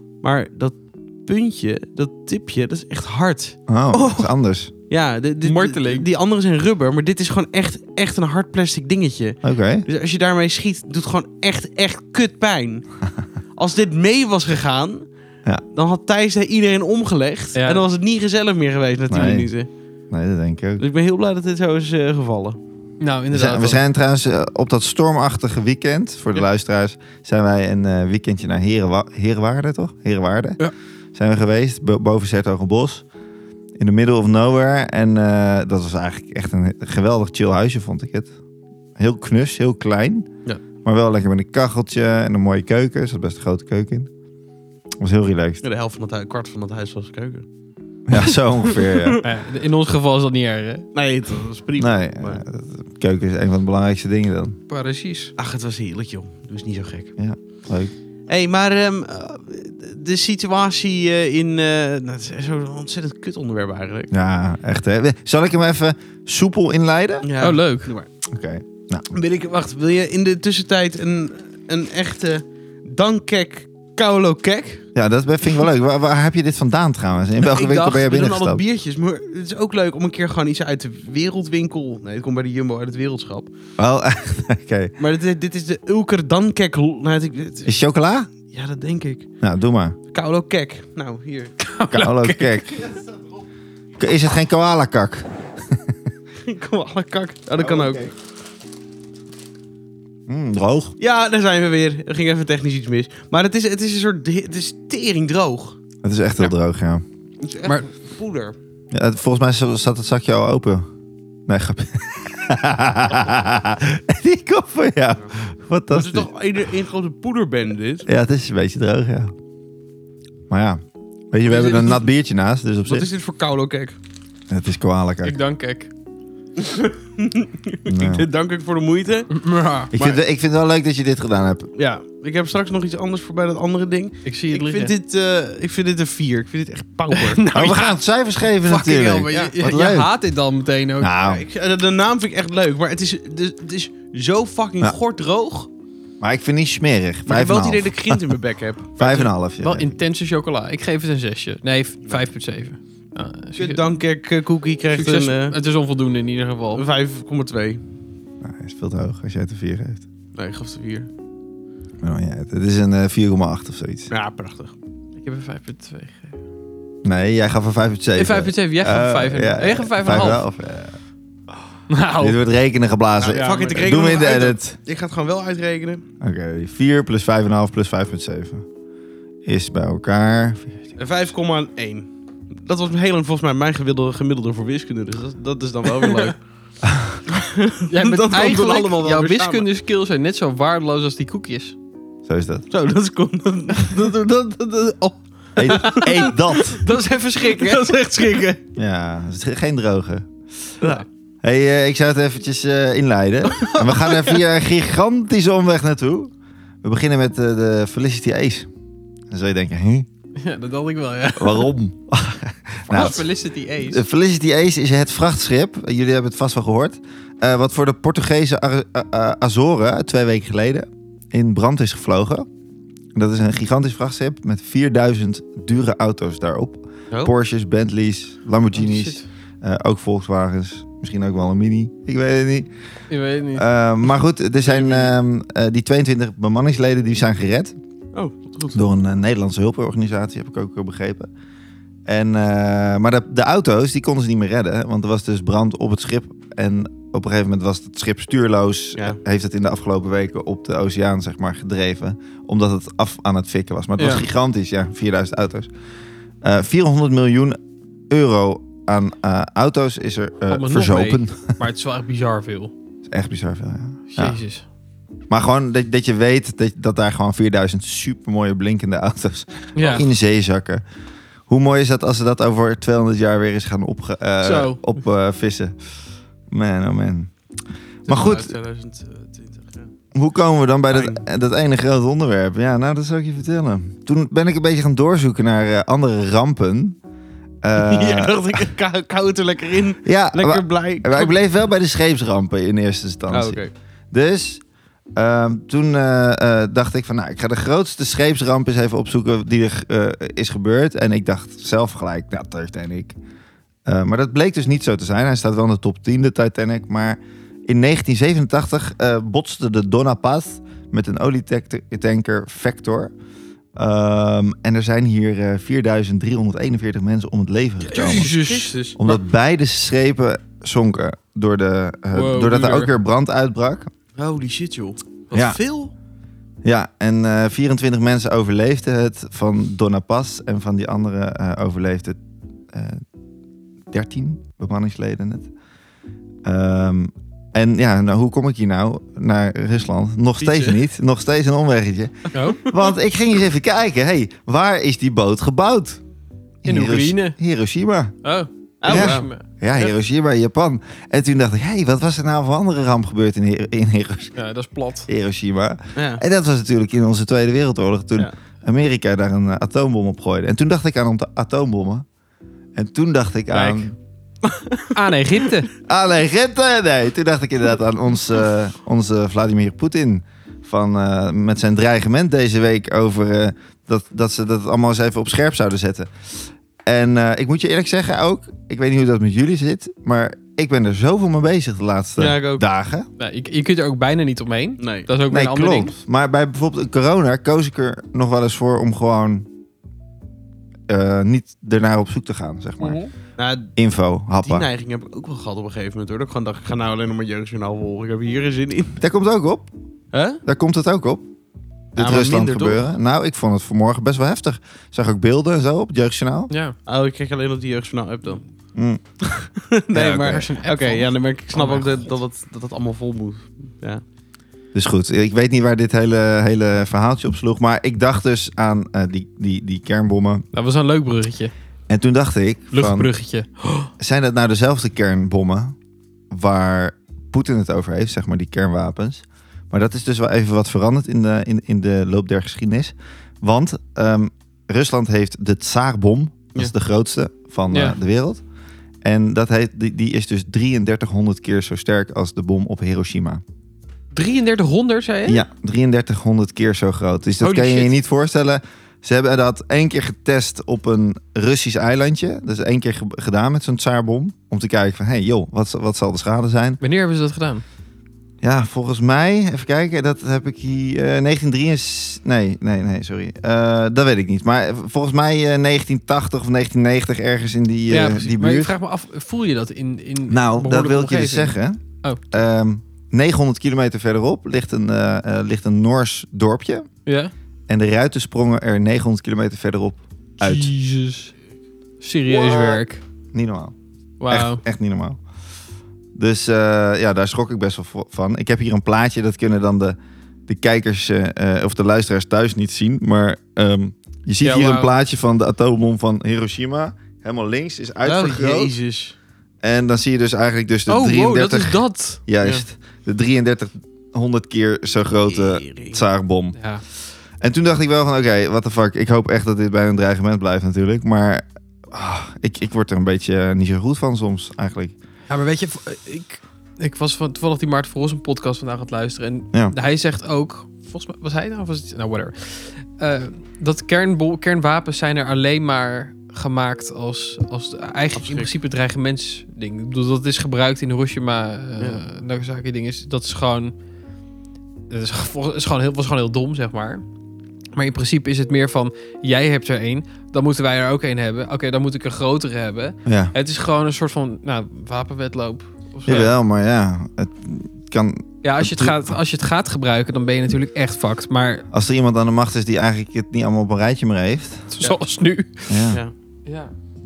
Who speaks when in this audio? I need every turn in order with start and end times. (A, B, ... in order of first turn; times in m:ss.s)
0:00.2-0:04.3 A
0:03.7-0:04.7 B
0:04.9-0:12.9 A
0:05.4-0:06.1 C
0:09.4-0:09.9 B
0:13.6-0:15.1 A
0:15.7-0:19.7 A
0:17.6-0:17.8 C
0:19.1-0:19.5 B
0:20.1-0:20.8 B
0:20.8-0:22.6 A
0:23.0-0:23.8 C
0:23.3-0:30.6 B
0:31.2-0:33.0 B
0:33.8-0:38.3 B
0:39.0-0:40.3 B
0:40.8-0:44.1 B
0:45.0-0:45.6 B
0:45.6-0:47.5 A
0:48.1-0:49.2 B
0:48.9-0:49.2 A
0:49.2-0:50.9 C
0:50.9-0:52.4 A
0:51.8-0:54.6 B
0:54.7-0:55.3 C
0:55.4-0:57.1 A
0:57.2-0:57.9 B
0:58.3-1:04.1 A
1:04.1-1:07.3 B
1:07.2-1:08.1 A
1:07.4-1:07.9 C
1:08.3-1:09.2 B
1:09.1-1:14.9 A
1:15.0-1:18.6 B
1:17.4-1:23.5 A
1:23.8-1:24.9 B
1:25.0-1:27.7 A
1:27.6-1:28.3 B
1:28.5-1:29.3 A
1:29.4-1:30.0 B
1:30.1-1:31.6 A
1:31.6-1:32.6 C
1:31.9-1:32.8 B
1:32.7-1:33.4 A
1:34.0-1:36.0 B
1:36.5-1:38.1 A
1:37.6-1:38.1 B
1:40.3-1:41.0 B
1:41.0-1:45.8 A
1:46.0-1:47.0 B
1:47.4-1:48.6 A
1:48.9-1:50.9 B
1:51.5-1:56.3 B
1:55.9-1:58.1 A
1:58.1-1:59.3 B
2:00.5-2:03.1 B
2:01.5-2:02.0 C
2:02.9-2:04.0 A
2:04.5-2:05.4 B
2:05.2-2:05.9 C
2:06.6-2:09.4 A
2:07.9-2:08.3 B
2:09.3-2:09.9 C
2:09.9-2:11.7 B
2:11.8-2:17.4 A
2:14.2-2:14.9 C
2:17.1-2:18.0 C
2:17.5-2:20.1 B
2:18.6-2:21.1 C
2:21.0-2:21.4 B
2:21.2-2:25.7 A
2:26.2-2:28.3 B
2:27.3-2:29.3 A
2:29.0-2:30.0 B
2:29.6-2:33.9 C
2:33.6-2:35.6 A
2:35.0-2:36.8 C
2:36.7-2:37.8 A
2:38.4-2:40.0 B
2:40.4-2:41.1 A
2:42.0-2:44.1 B
2:44.1-2:44.7 A
2:45.2-2:46.4 C
2:47.0-2:51.0 B
2:48.2-2:50.4 C
2:51.9-2:52.4 C
2:52.2-2:54.8 B
2:53.2-2:54.3 C
2:53.3-2:56.0 A
2:56.2-2:58.6 B
2:59.4-3:00.8 B
3:01.0-3:06.4 A
3:06.0-3:06.3 C
3:06.8-3:07.2 B
3:07.3-3:09.7 A
3:07.9-3:11.8 C
3:12.2-3:12.7 B
3:12.7-3:18.6 A
3:15.6-3:16.8 B
3:15.7-3:18.0 C
3:18.8-3:20.3 B
3:21.4-3:28.7 B
3:23.5-3:24.4 A
3:29.3-3:30.1 B
3:30.4-3:31.7 C
3:31.4-3:33.3 B
3:32.9-3:34.0 C
3:33.8-3:42.5 B
3:43.2-3:52.7 B
3:48.8-3:49.3 C
3:53.1-3:53.7 C
3:53.6-3:57.8 B
3:58.1-3:58.9 A
3:58.7-4:01.3 B
4:02.1-4:15.7 B
4:14.0-4:14.2 C
4:16.4-4:17.6 B
4:18.1-4:21.6 B
4:20.5-4:22.7 C
4:23.1-4:24.4 B
4:24.1-4:24.6 C
4:25.3-4:30.8 B
4:29.8-4:30.1 C
4:31.5-4:35.8 B
4:34.4-4:34.8 C
4:36.5-4:37.3 B
4:38.1-4:38.6 B
4:38.1-4:39.9 A
4:40.1-4:47.0 B
4:40.9-4:41.2 A
4:47.6-4:48.6 B
4:47.8-4:51.4 A
4:50.0-4:54.6 B
4:53.3-4:53.7 A
4:55.2-5:03.2 B
5:03.8-5:13.1 B
5:13.8-5:18.4 B
5:17.9-5:19.2 C
5:17.9-5:18.9 A
5:19.0-5:23.9 B
5:22.1-5:22.9 C
5:24.2-5:25.9 A
5:25.3-5:25.6 B
5:26.6-5:32.2 B
5:32.7-5:33.0 B
5:33.9-5:35.5 B
5:36.4-5:46.0 B
5:40.4-5:40.8 A
5:42.3-5:42.7 C
5:46.6-5:48.2 B
5:46.7-5:47.4 C
5:48.2-5:49.4 C
5:48.8-5:49.3 A
5:48.9-5:54.4 B
5:54.4-5:55.1 C
5:55.1-6:02.0 B
5:56.0-5:56.2 A
6:02.8-6:04.0 B
6:03.5-6:03.9 C
6:04.4-6:05.4 A
6:04.9-6:05.7 C
6:05.8-6:16.1 B
6:16.8-6:23.1 B
6:22.2-6:22.6 A
6:23.2-6:25.9 C
6:24.8-6:25.1 A
6:25.3-6:29.5 B
6:30.9-6:33.0 B
6:32.8-6:33.7 A
6:33.8-6:34.7 B
6:34.4-6:39.0 A
6:39.0-6:39.7 B
6:40.1-6:40.4 A
6:40.4-6:41.2 B
6:41.9-6:46.5 B
6:42.0-6:42.8 A
6:46.5-6:46.8 C
6:46.9-6:48.4 A
6:48.8-6:49.0 B
6:49.2-6:54.0 A
6:49.9-6:50.4 B
6:50.0-6:52.1 C
6:54.7-7:00.5 B
7:00.5-7:01.5 C
7:01.9-7:03.1 B
7:02.7-7:03.9 C
7:04.0-7:05.8 B
7:06.3-7:18.4 B
7:17.7-7:18.0 C
7:19.0-7:23.4 B
7:24.1-7:25.4 C
7:25.2-7:36.8 B
7:27.4-7:27.9 C
7:36.8-7:37.6 C
7:38.4-7:48.7 B
7:47.9-7:52.4 C
7:50.3-7:56.9 B
7:57.1-7:57.3 C
7:57.7-8:00.7 B
8:00.4-8:01.3 C
8:02.0-8:03.0 C
8:02.3-8:03.8 B
8:04.2-8:04.6 C
8:04.3-8:05.2 B
8:06.2-8:18.7 B
8:14.4-8:14.9 C
8:18.0-8:19.2 A
8:19.6-8:26.6 B
8:20.9-8:22.2 C
8:25.2-8:26.0 A
8:26.6-8:26.8 C
8:27.4-8:35.0 B
8:35.3-8:53.7 C
8:48.1-8:48.5 A
8:54.9-8:57.0 C
8:57.8-9:06.3 C
9:03.1-9:03.3 B
9:06.1-9:09.2 B
9:08.4-9:11.7 C
9:11.7-9:14.7 B
9:14.7-9:16.7 C
9:15.7-9:16.0 B